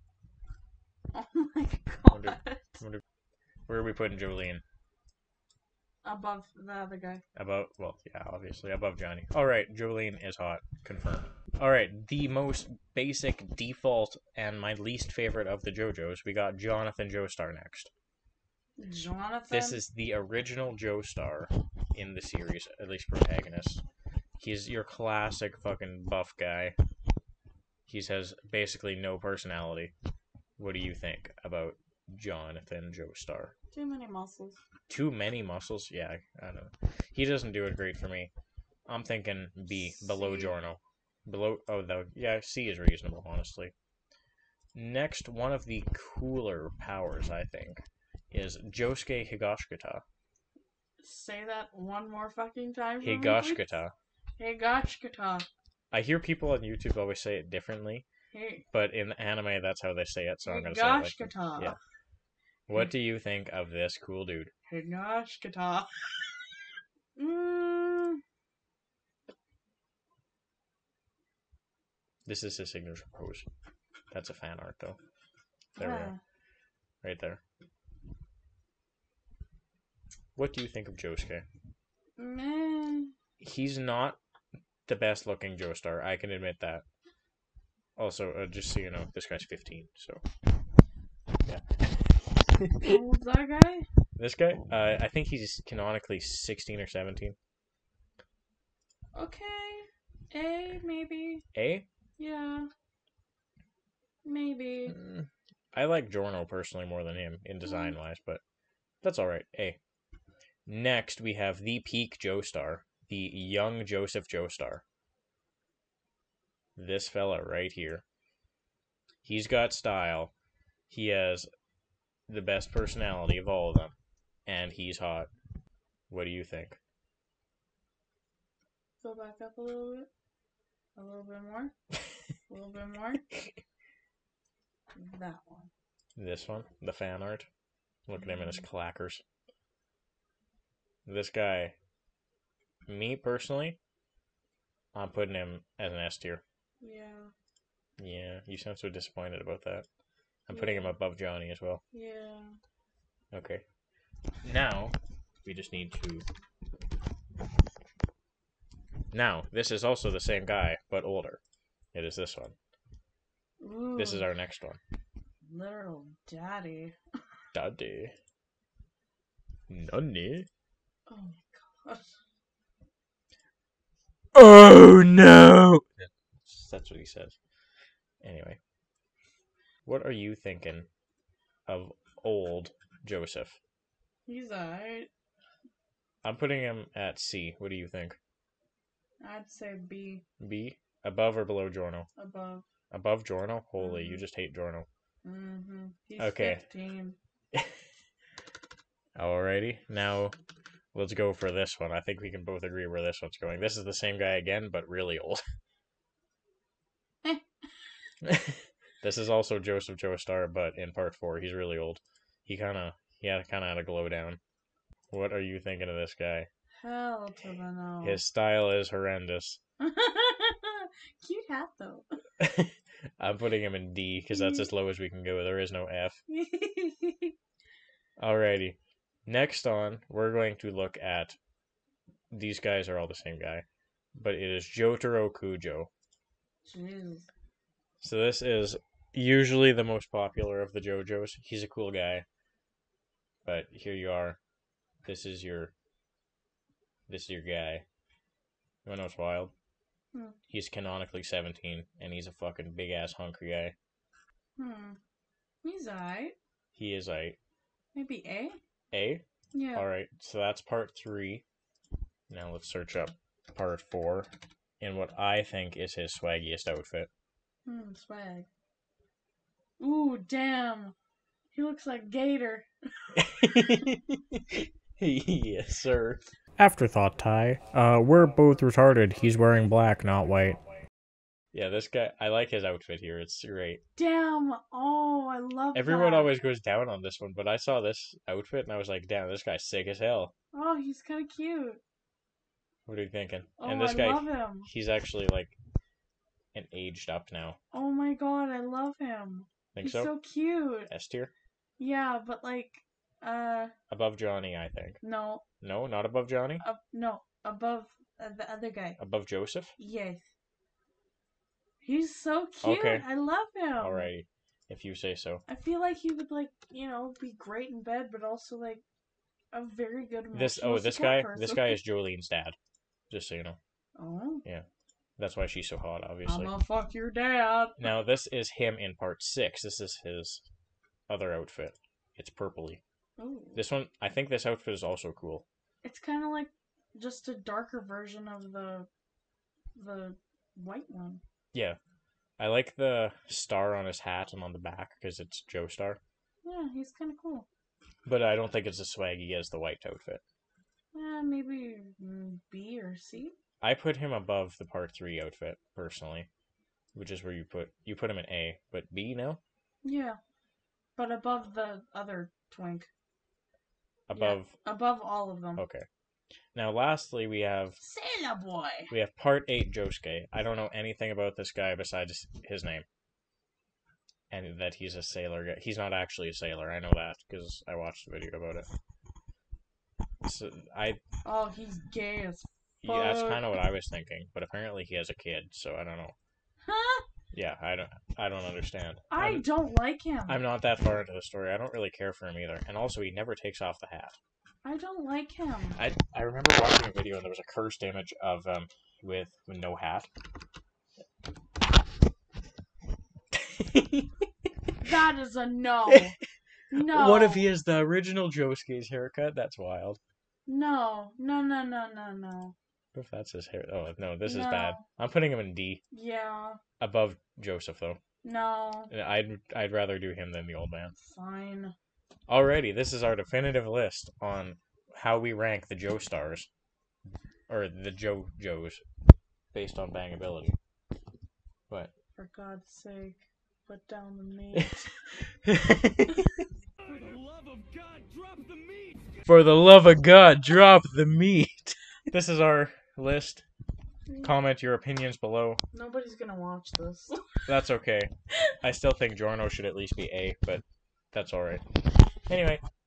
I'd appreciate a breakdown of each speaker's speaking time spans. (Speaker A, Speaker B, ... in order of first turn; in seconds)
Speaker A: 1.1-2.8, 6.0-7.2, 18.8-19.8, 33.7-34.6, 39.7-40.5, 51.0-53.7, 54.4-55.5, 58.3-58.6, 60.4-61.8, 64.7-66.6, 67.2-68.2, 75.8-76.2, 82.2-83.1, 92.8-93.9, 99.1-101.4, 102.2-102.7, 104.2-104.9, 107.6-108.0, 129.0-130.1, 130.9-131.7, 132.5-133.2, 134.9-135.7, 138.2-138.6, 146.8-147.3, 150.5-150.9, 151.9-152.6, 163.6-164.3, 165.4-167.0, 171.1-172.2, 184.3-185.1, 189.2-190.2, 192.2-192.6, 193.8-194.2, 195.2-197.2, 216.8-218.2, 219.8-222.1, 224.3-224.7, 226.3-227.3, 236.6-237.3, 254.6-255.0, 255.6-256.4, 257.9-258.6, 259.5-259.9, 267.6-268.5, 269.8-270.9, 271.5-273.1, 284.0-286.3, 290.5-291.8, 293.6-294.7, 297.7-300.9, 301.8-303.7, 305.0-305.4, 306.6-309.0, 309.8-310.3, 311.8-314.1, 315.5-318.8, 319.5-321.8, 324.0-324.4, 326.2-327.8, 333.2-333.6, 335.8-338.9, 339.7-341.2, 346.4-347.5, 350.9-353.3, 359.8-360.2, 360.9-362.9, 364.1-365.6, 367.8-368.9, 381.2-383.5, 386.6-387.0, 389.1-390.4, 394.6-395.8, 404.8-406.1, 406.7-407.5, 410.4-412.5, 414.2-414.8, 415.9-416.6, 418.2-418.9, 421.0-421.7, 432.1-434.9, 444.1-444.3, 445.7-447.4
Speaker B: 2.1-3.0, 3.7-4.6, 7.3-17.9, 19.5-23.8, 24.4-26.7, 27.9-29.9, 30.6-33.5, 34.9-38.3, 38.9-43.7, 44.7-50.0, 53.0-53.9, 55.9-58.0, 58.7-61.8, 62.7-64.5, 72.2-73.5, 74.1-75.0, 75.8-76.1, 77.0-77.4, 80.3-81.4, 83.4-84.2, 84.9-86.8, 88.0-90.2, 91.4-93.0, 94.2-97.3, 101.5-101.8, 104.9-108.4, 109.0-109.8, 110.7-114.8, 116.8-118.0, 119.2-120.3, 120.9-121.5, 122.3-123.9, 124.5-125.3, 126.1-126.8, 136.2-137.5, 138.1-139.2, 141.1-141.7, 142.9-143.8, 144.9-146.4, 148.0-149.8, 150.5-151.8, 153.3-153.6, 154.4-156.2, 159.1-161.4, 161.9-162.5, 164.0-164.8, 167.5-168.1, 169.7-170.5, 174.3-177.3, 178.2-178.6, 179.8-180.9, 181.7-183.6, 186.2-188.2, 190.4-192.1, 192.9-194.9, 196.2-196.6, 199.2-200.3, 200.9-205.4, 208.2-214.4, 215.1-216.5, 218.0-219.6, 222.4-226.2, 228.2-231.4, 232.3-233.6, 234.2-235.9, 238.0-242.2, 243.4-244.4, 245.0-245.7, 247.1-247.8, 248.8-249.5, 250.5-253.7, 256.7-257.4, 258.9-259.2, 259.7-261.4, 262.3-264.3, 264.8-267.1, 273.1-280.6, 281.5-283.8, 285.7-290.3, 292.9-295.5, 296.5-297.6, 299.7-300.1, 300.9-301.3, 303.9-305.0, 305.6-306.6, 309.0-309.7, 312.6-313.0, 313.8-315.4, 320.3-322.6, 323.1-323.6, 325.2-326.5, 327.8-330.4, 331.1-332.8, 333.5-335.4, 341.5-341.8, 342.4-346.0, 348.1-350.2, 353.6-356.3, 356.9-359.4, 364.1-364.5, 365.6-365.9, 366.5-367.8, 368.9-372.9, 374.3-378.7, 380.2-381.0, 382.8-386.1, 387.3-389.5, 390.3-394.2, 395.8-400.1, 403.3-404.1, 406.7-410.0, 412.9-415.8, 416.8-418.0, 418.9-420.9, 422.3-426.5, 427.5-428.8, 429.5-430.6, 435.2-436.3, 439.2-443.4, 444.2-445.6, 447.5-451.6, 452.3-452.6
Speaker C: 436.8-439.2